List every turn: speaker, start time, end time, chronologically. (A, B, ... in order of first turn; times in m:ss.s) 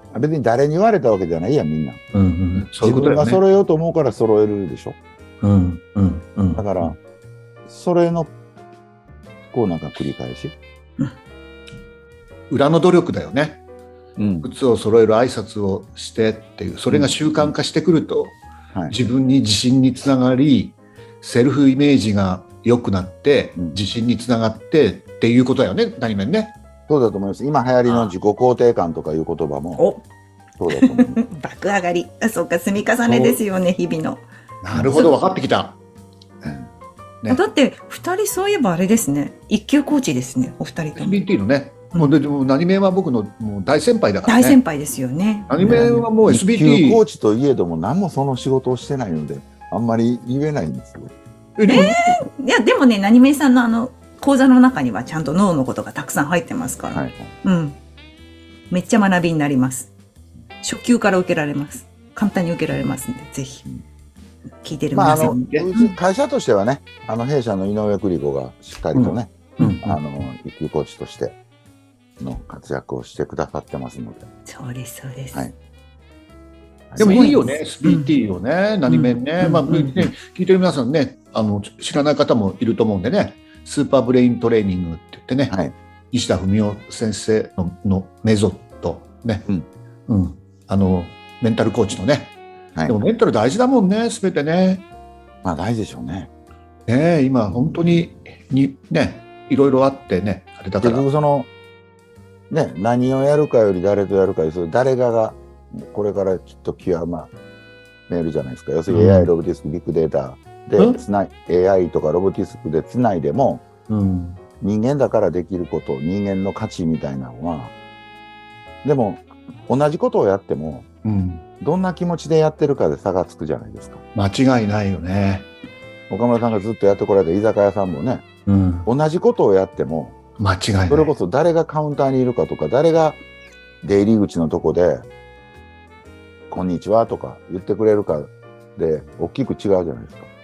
0:00.1-0:02.0 A
0:02.1-0:03.4 B
0:02.6-0:05.0 A
0:05.4-0:06.9 B
0:06.6-0:07.0 A
0:07.7-0:08.3 A
0:09.5-0:10.5 A
0:12.5-0:13.6 B
0:14.2-0:14.5 A
0:14.4-0:18.4 B
0:16.9-0:17.5 A
0:18.9-0:26.5 B
0:26.9-0:29.9 A
0:27.8-0:28.1 B
0:29.8-0:30.0 C
0:30.6-0:31.2 A
0:30.7-0:34.2 C
0:33.0-0:33.4 B
0:34.6-0:35.8 B
0:34.8-0:35.1 C
0:36.4-0:36.7 A
0:37.3-0:41.2 C
0:41.0-0:44.6 B
0:44.2-0:46.1 C
0:45.5-0:47.0 B
0:45.6-0:51.1 A
0:51.6-0:52.2 B
0:51.7-0:57.8 C
0:56.9-0:57.3 A
0:58.7-0:59.9 C
1:00.6-1:03.7 C
1:04.6-1:05.9 C
1:04.9-1:11.4 A
1:05.1-1:05.7 B
1:08.9-1:10.0 B
1:12.2-1:14.3 A
1:14.4-1:15.5 C
1:16.9-1:17.3 A
1:17.0-1:18.1 C
1:17.0-1:25.6 B
1:18.9-1:20.1 C
1:25.5-1:25.7 A
1:26.1-1:29.4 B
1:30.1-1:32.3 B
1:32.7-1:33.0 A
1:32.9-1:34.8 B
1:35.4-1:36.3 A
1:36.9-1:41.0 B
1:37.5-1:37.8 A
1:40.8-1:41.5 A
1:42.5-1:47.3 A
1:48.1-1:53.7 A
1:48.9-1:49.3 B
1:53.9-1:54.4 B
1:54.6-1:57.7 A
1:58.8-2:00.9 A
2:01.0-2:01.4 B
2:01.6-2:04.0 A
2:04.1-2:05.5 B
2:06.1-2:08.2 A
2:08.4-2:08.9 B
2:08.8-2:10.2 A
2:10.4-2:11.1 B
2:10.9-2:13.2 A
2:13.8-2:15.0 A
2:16.5-2:20.3 A